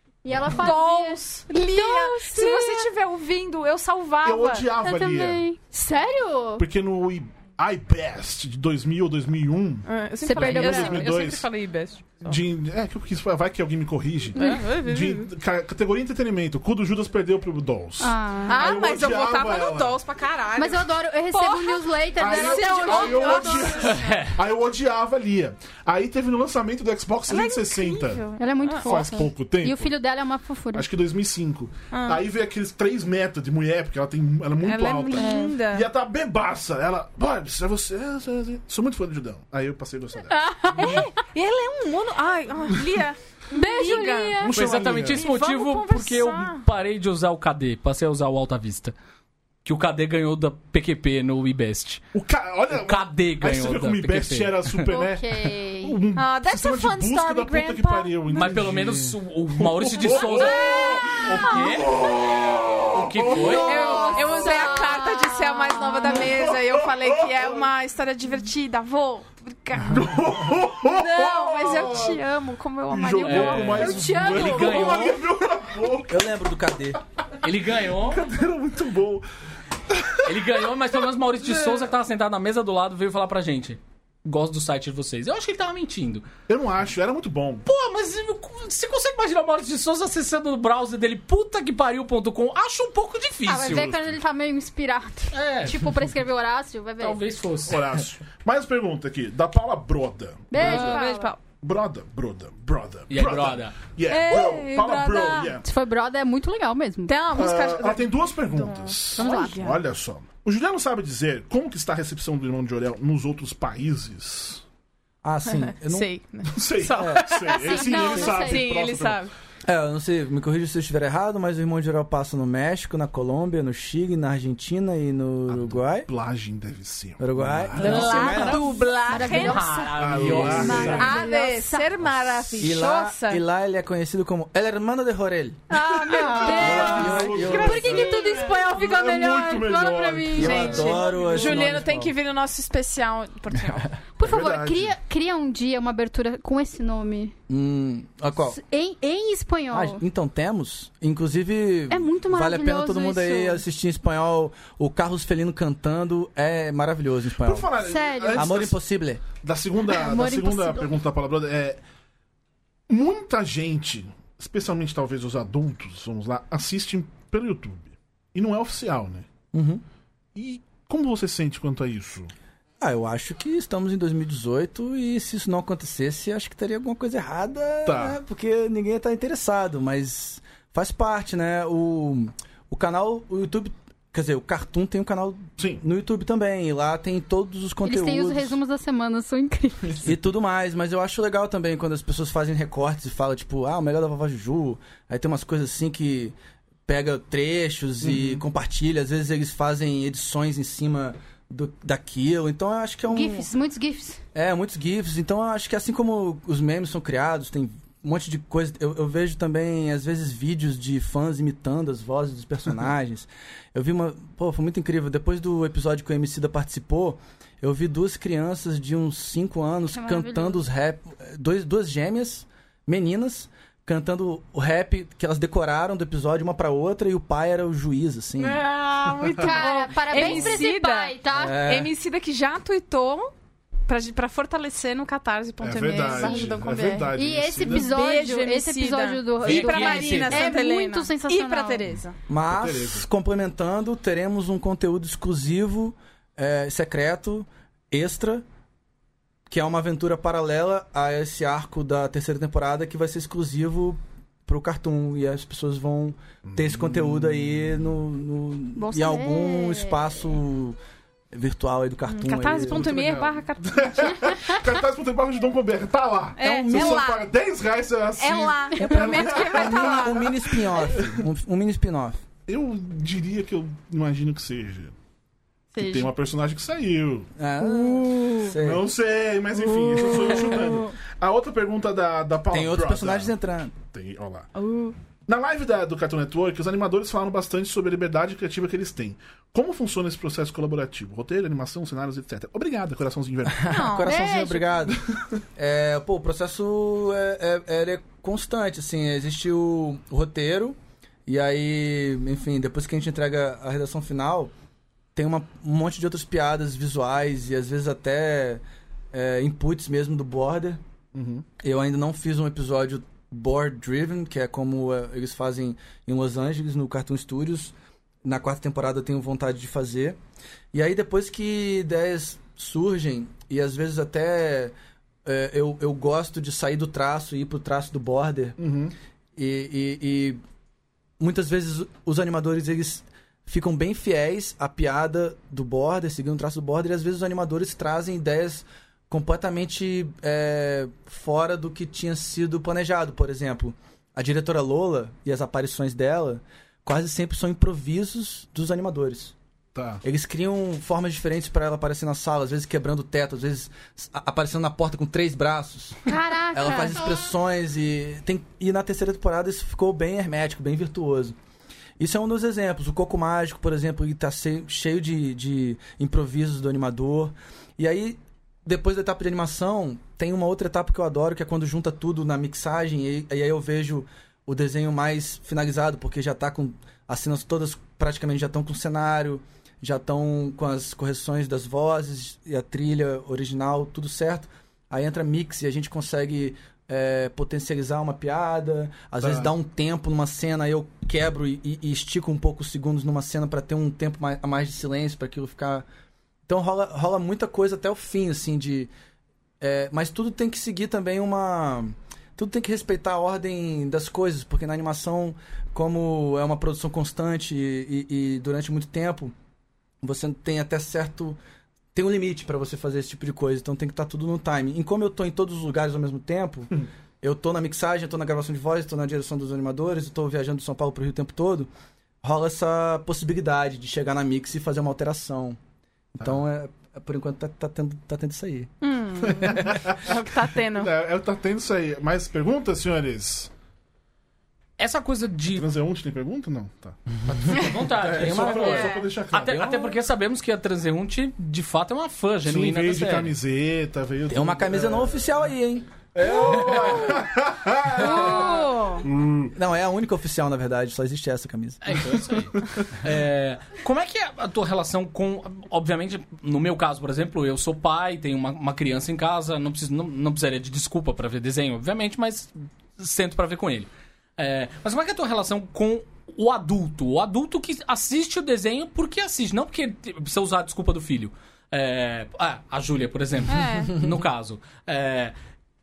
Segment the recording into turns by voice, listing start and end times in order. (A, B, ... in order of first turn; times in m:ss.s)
0:00.2-0:02.9 A
0:00.4-0:04.7 B
0:04.2-0:05.5 C
0:04.8-0:06.6 A
0:06.6-0:11.5 C
0:09.9-0:12.4 B
0:10.2-0:11.1 A
0:12.2-0:20.0 C
0:14.4-0:14.6 A
0:14.4-0:15.3 B
0:18.0-0:18.7 A
0:18.5-0:24.1 B
0:20.6-0:23.9 A
0:22.2-0:29.9 C
0:23.7-0:24.4 D
0:27.3-0:29.0 B
0:28.4-0:30.9 A
0:30.7-0:41.0 C
0:31.9-0:32.2 B
0:34.6-0:35.9 B
0:35.1-0:35.5 A
0:40.3-0:41.1 A
0:40.7-0:46.6 B
0:43.5-0:44.6 A
0:44.4-0:45.3 C
0:44.5-0:48.9 D
0:49.6-0:52.0 D
0:52.1-1:04.4 C
0:52.7-0:54.8 D
0:54.9-0:56.0 A
0:56.2-0:58.6 B
0:58.4-1:01.9 D
1:00.1-1:01.8 B
1:00.7-1:01.5 A
1:02.9-1:04.2 D
1:03.3-1:06.3 A
1:03.5-1:10.2 B
1:06.0-1:07.6 C
1:09.9-1:12.2 C
1:10.9-1:14.2 B
1:12.9-1:16.2 C
1:13.2-1:15.2 D
1:13.7-1:15.1 A
1:16.1-1:17.0 E
1:17.4-1:18.3 D
1:18.0-1:19.3 C
1:19.9-1:20.3 C
1:20.2-1:26.3 D
1:26.5-1:27.6 C
1:27.7-1:34.0 D
1:33.5-1:37.2 A
1:35.3-1:36.1 D
1:37.0-1:37.9 D
1:37.7-1:41.0 C
1:40.5-1:41.3 A
1:40.6-1:41.4 B
1:41.6-1:45.7 C
1:43.1-1:43.8 D
1:44.1-1:45.6 B
1:45.6-1:47.2 A
1:47.1-1:49.8 B
1:47.3-1:54.6 C
1:49.2-1:49.6 A
1:55.2-1:56.1 E
1:55.5-1:59.3 B
1:56.5-1:59.2 C
1:56.9-1:57.4 E
1:57.5-1:58.7 A
1:59.7-2:06.1 E
2:05.5-2:08.2 C
2:07.2-2:08.7 E
2:07.8-2:08.6 D
2:07.8-2:09.9 B
2:07.8-2:11.9 A
2:09.2-2:11.2 D
2:10.0-2:11.2 C
2:10.9-2:13.4 B
2:12.0-2:12.5 C
2:12.6-2:15.7 E
2:15.7-2:21.0 A
2:15.7-2:18.5 B
2:15.9-2:22.0 C
2:16.4-2:18.0 E
2:20.3-2:22.1 E
2:20.4-2:23.9 B
2:24.2-2:27.4 A
2:24.2-2:25.0 C
2:27.5-2:28.6 E
2:28.5-2:30.0 A
2:29.7-2:37.7 E
2:31.9-2:33.6 A
2:37.4-2:41.8 C
2:37.8-2:38.5 A
2:38.3-2:39.2 E
2:39.9-2:40.9 A
2:42.9-2:49.3 C
2:49.5-2:49.8 E
2:50.4-2:52.3 C
2:52.8-3:08.6 E
2:57.8-2:58.2 C
3:05.6-3:05.8 C
3:07.8-3:10.1 A
3:10.0-3:16.4 E
3:16.9-3:23.5 E
3:18.0-3:18.4 C
3:23.1-3:24.2 A
3:24.3-3:48.6 E
3:39.9-3:40.6 A
3:48.4-3:53.3 B
3:49.2-3:51.6 A
3:51.3-3:51.9 E
3:53.9-4:02.2 B
3:55.6-3:57.9 C
3:57.1-4:01.8 A
3:59.4-4:00.5 D
4:02.3-4:08.4 E
4:02.5-4:03.1 C
4:09.5-4:20.8 E
4:16.5-4:16.8 C
4:18.8-4:20.0 A
4:21.3-4:23.0 E
4:22.1-4:24.3 B
4:22.6-4:31.2 C
4:26.4-4:27.3 B
4:26.4-4:27.0 E
4:28.2-4:30.3 B
4:28.9-4:32.2 E
4:32.5-4:34.9 C
4:35.8-4:36.1 B
4:35.8-4:37.3 C
4:37.4-4:38.9 E
4:37.9-4:38.5 B
4:38.6-4:44.5 C
4:40.0-4:40.7 B
4:42.5-4:43.8 E
4:44.6-4:44.9 B
4:45.3-4:53.9 C
4:53.5-4:55.0 E
4:53.6-4:54.3 B
4:54.0-4:54.7 A
4:54.9-4:55.2 C
4:55.6-5:04.5 E
5:05.2-5:10.8 E
5:11.2-5:11.5 C
5:11.6-5:20.2 E
5:20.7-5:28.6 E
5:28.6-5:28.9 C
5:29.4-5:30.4 E
5:31.2-5:49.4 E
5:49.8-5:50.0 C
5:50.0-6:01.4 E
5:56.1-5:57.2 A
6:02.0-6:35.9 E
6:29.2-6:29.5 C
6:36.5-6:38.9 E
6:39.6-6:49.3 E
6:50.0-6:51.4 E
6:51.9-7:01.7 E
7:02.2-7:05.6 E
7:06.2-7:08.7 E
7:08.8-7:10.9 B
7:09.4-7:10.1 C
7:09.4-7:09.7 E
7:10.7-7:13.5 C
7:14.8-7:15.7 D
7:15.5-7:20.0 C
7:17.3-7:23.4 D
7:17.4-7:18.9 E
7:18.6-7:19.1 B
7:22.4-7:25.2 C
7:24.3-7:27.1 E
7:26.2-7:29.6 C
7:26.2-7:27.2 B
7:28.0-7:29.1 B
7:28.0-7:28.7 E
7:29.6-7:32.0 E
7:31.8-7:55.3 D
7:53.5-7:54.0 B